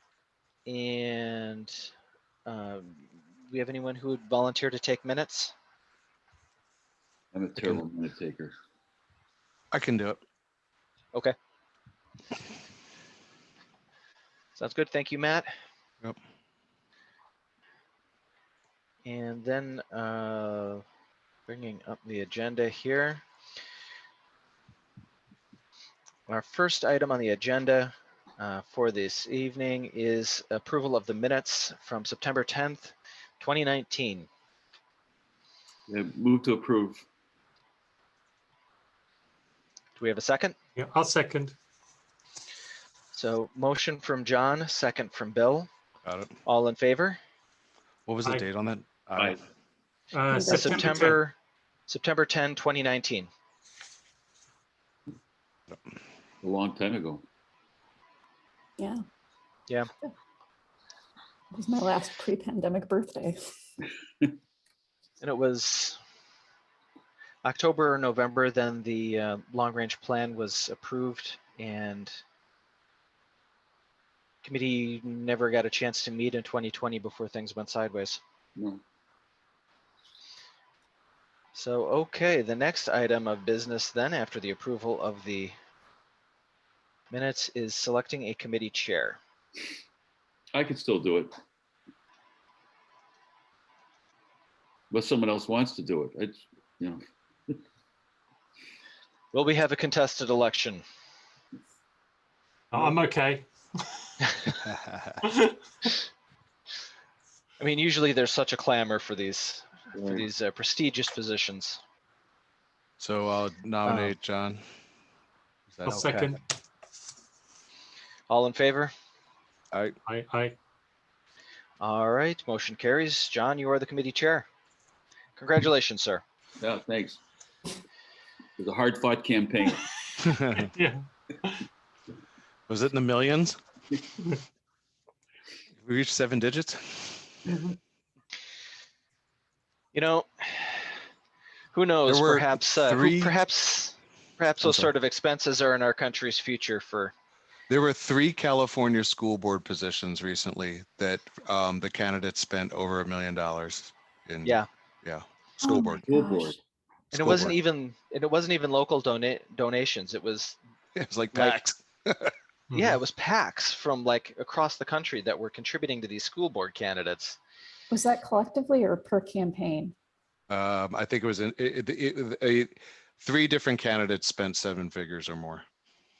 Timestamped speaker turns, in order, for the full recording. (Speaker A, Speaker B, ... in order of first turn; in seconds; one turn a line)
Speaker A: 0.7-1.9
Speaker A: 2.5-5.5
Speaker B: 7.3-8.5
Speaker C: 9.7-10.2
Speaker A: 14.6-15.5
Speaker A: 19.0-20.8
Speaker A: 21.5-23.2
Speaker A: 26.3-34.3
Speaker B: 35.9-37.0
Speaker A: 40.0-40.5
Speaker D: 40.8-41.5
Speaker A: 43.1-45.7
Speaker C: 46.0-46.3
Speaker A: 46.4-47.2
Speaker C: 48.0-49.4
Speaker D: 50.1-51.2
Speaker E: 50.3-50.8
Speaker A: 50.4-51.4
Speaker A: 51.9-53.3
Speaker B: 56.4-57.2
Speaker E: 58.8-59.0
Speaker E: 61.5-63.4
Speaker A: 65.2-66.0
Speaker A: 67.4-72.2
Speaker A: 74.4-78.2
Speaker B: 78.6-78.8
Speaker A: 81.5-85.5
Speaker A: 87.1-89.2
Speaker B: 90.5-91.3
Speaker B: 94.9-97.6
Speaker A: 99.3-100.8
Speaker D: 102.7-104.1
Speaker C: 104.6-105.2
Speaker D: 105.2-105.9
Speaker A: 107.6-111.8
Speaker B: 109.9-110.3
Speaker C: 113.0-114.6
Speaker A: 113.8-114.1
Speaker C: 115.7-116.0
Speaker D: 115.8-116.4
Speaker A: 115.9-116.3
Speaker A: 118.3-118.9
Speaker D: 120.1-120.5
Speaker A: 121.8-124.5
Speaker A: 125.4-126.2
Speaker B: 126.6-127.2
Speaker B: 128.6-129.8
Speaker C: 130.2-130.7
Speaker D: 130.6-131.6
Speaker C: 132.7-133.6
Speaker C: 135.8-137.4
Speaker A: 139.9-140.9
Speaker A: 141.7-147.1
Speaker C: 142.1-143.3
Speaker C: 144.6-144.9
Speaker C: 147.7-156.1
Speaker E: 155.6-156.6
Speaker B: 156.1-156.6
Speaker C: 157.1-157.6
Speaker A: 157.1-160.6
Speaker C: 160.9-162.3
Speaker A: 161.3-161.6
Speaker D: 162.7-163.0
Speaker A: 162.7-167.4
Speaker E: 167.9-169.9
Speaker C: 170.5-175.6